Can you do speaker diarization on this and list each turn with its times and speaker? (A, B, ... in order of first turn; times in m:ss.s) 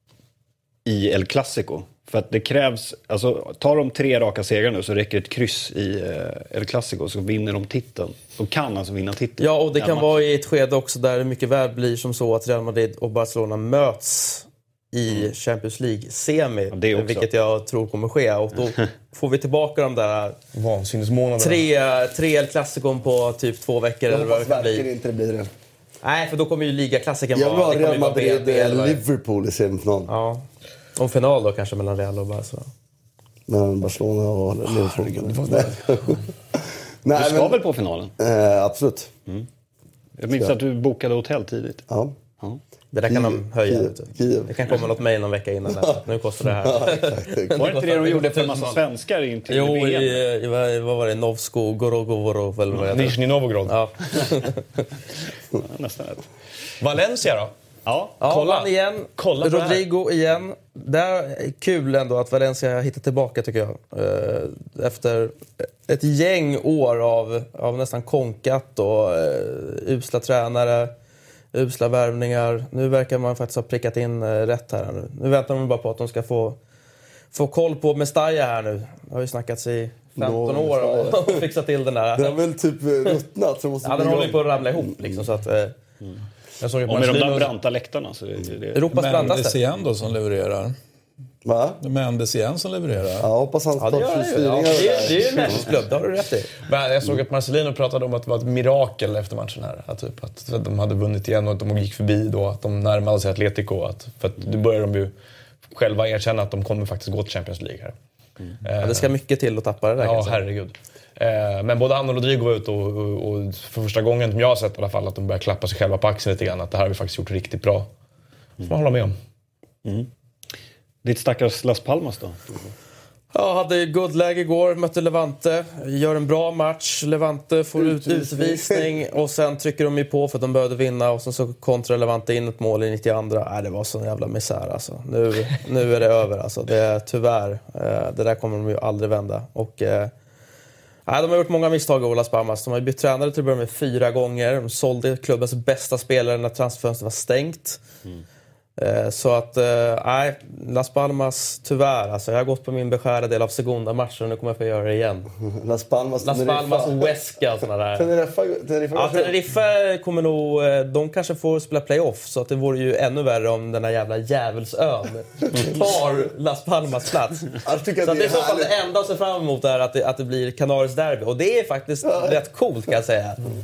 0:00.8-0:10.2 A
0:09.4-0:20.4 B
0:16.7-0:17.3 A
0:20.5-0:21.6 C
0:21.4-0:24.8 B
0:24.1-0:25.5 D
0:26.0-0:29.0 B
0:27.3-0:30.1 D
0:30.1-0:30.4 B
0:31.0-0:32.7 B
0:33.5-0:37.6 D
0:35.3-0:35.7 C
0:37.1-0:38.1 A
0:38.2-0:39.1 D
0:40.2-0:41.8 A
0:41.9-0:42.2 D
0:42.9-0:48.8 B
0:43.1-0:44.5 D
0:45.7-0:46.0 D
0:46.5-0:47.7 D
0:47.5-0:50.2 A
0:49.5-0:54.8 B
0:52.8-0:53.8 C
0:55.6-0:56.2 A
0:56.8-0:57.5 C
0:57.8-0:58.1 A
0:58.2-1:10.9 B
0:58.2-0:59.8 C
1:11.5-1:16.6 B
1:17.3-1:22.4 B
1:20.2-1:21.5 D
1:22.1-1:24.9 D
1:23.8-1:25.7 B
1:26.6-1:27.5 C
1:26.8-1:28.9 A
1:28.7-1:29.6 B
1:28.9-1:30.8 E
1:31.4-1:31.8 D
1:31.8-1:33.3 E
1:33.2-1:35.7 D
1:33.8-1:36.5 B
1:36.6-1:45.1 C
1:45.7-1:47.9 C
1:48.6-1:49.1 C
1:48.8-1:50.4 B
1:50.0-1:57.9 C
1:58.6-1:59.2 C
1:59.8-2:00.1 A
2:01.0-2:02.6 A
2:03.3-2:20.1 B
2:07.8-2:08.9 D
2:21.1-2:27.8 B
2:28.8-2:35.3 B
2:35.4-2:37.1 D
2:36.2-2:38.1 B
2:37.9-2:39.4 D
2:38.9-2:53.4 B
2:47.6-2:48.7 D
2:52.0-2:52.4 D